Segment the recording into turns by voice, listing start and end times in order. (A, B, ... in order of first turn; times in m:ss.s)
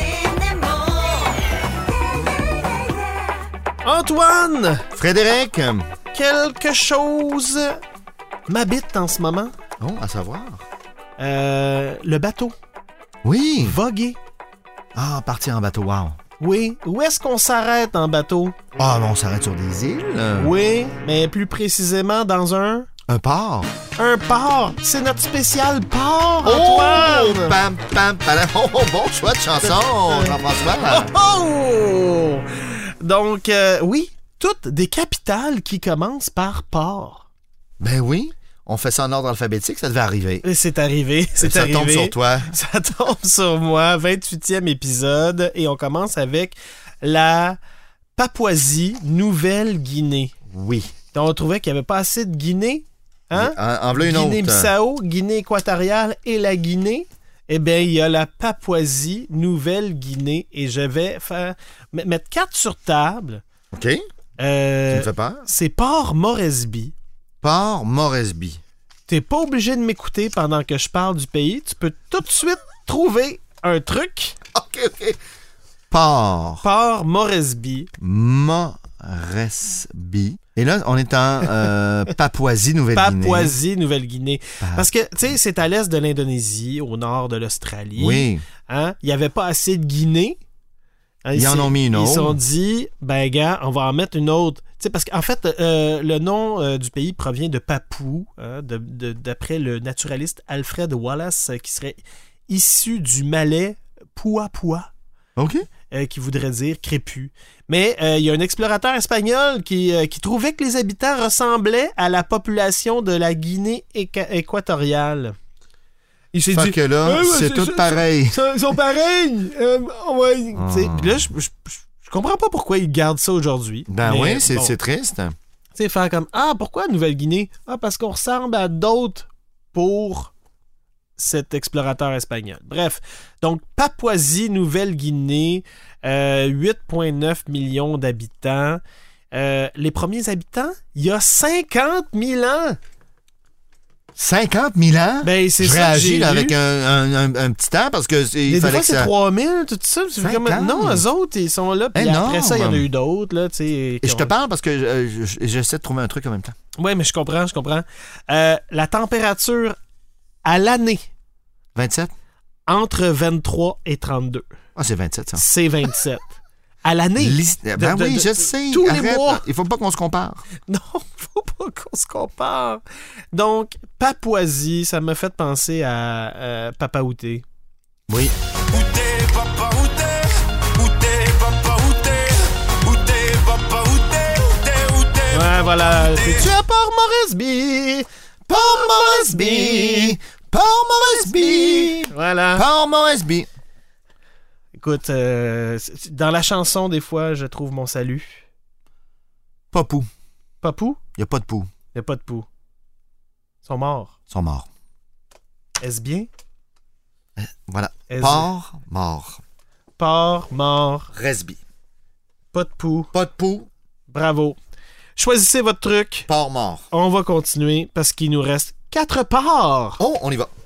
0:00.1-0:01.2 A
0:03.8-0:04.9 B
0:04.9-0:05.9 C
0:06.1-0:07.8 B
0:08.5-0:09.5 B
0:09.8-0:10.6 C
0:11.2-0:12.5 B
0:13.2-0:13.8 C
0:13.6-0:14.2 B
0:14.9-0:16.2 C
0:16.4-0:18.6 B
0:18.8-0:20.5 C
0:20.4-0:22.9 B
0:23.1-0:23.7 C
0:24.0-0:27.6 B
0:26.4-0:31.1 C
0:29.7-0:37.3 B
0:37.8-0:40.4 C
0:40.4-0:47.6 B
0:41.4-0:42.5 C
0:48.2-0:50.3 B
0:50.5-0:50.9 C
0:51.1-1:03.4 B
0:53.3-0:54.7 C
1:03.7-1:04.0 C
1:04.4-1:06.9 B
1:04.9-1:05.5 C
1:07.4-1:08.6 C
1:09.1-1:14.4 B
1:14.5-1:15.2 C
1:15.9-1:16.6 C
1:16.6-1:17.9 B
1:18.0-1:23.6 C
1:22.9-1:30.4 B
1:24.6-1:24.9 C
1:28.0-1:28.4 C
1:31.2-1:44.9 B
1:31.3-1:32.4 C
1:45.4-1:45.6 C
1:45.9-1:55.3 B
1:56.3-2:04.7 B
1:56.5-1:58.4 C
2:00.5-2:01.3 C
2:03.9-2:05.3 C
2:05.7-2:10.3 B
2:11.2-2:18.8 B
2:19.3-2:22.8 B
2:24.2-2:29.1 C
2:25.2-2:26.6 B
2:28.5-2:34.3 B
2:30.2-2:31.0 C
2:31.9-2:32.9 C
2:34.0-2:36.5 C
2:36.8-2:39.8 B
2:40.4-2:41.1 B
2:41.8-2:42.1 C
2:42.7-2:44.4 B
2:44.8-2:45.4 C
2:45.3-2:49.4 B
2:47.2-2:50.4 C
2:50.7-2:52.8 B
2:53.3-2:57.4 B
2:58.1-2:58.3 C
2:58.7-3:05.2 A
3:05.3-3:10.2 B
3:08.5-3:13.5 C
3:11.0-3:12.6 B
3:14.8-3:18.4 B
3:19.7-3:20.1 C
3:20.6-3:21.0 B
3:21.2-3:21.7 C
3:21.9-3:22.5 B
3:23.6-3:24.1 B
3:24.3-3:24.7 C
3:25.8-3:26.3 B
3:27.4-3:29.4 C
3:28.1-3:28.5 B
3:30.0-3:31.1 B
3:31.1-3:31.6 C
3:32.5-3:33.1 B
3:33.1-3:33.7 C
3:34.1-3:34.6 B
3:35.2-3:36.3 B
3:36.3-3:36.9 C
3:36.9-3:40.0 B
3:40.0-3:40.5 C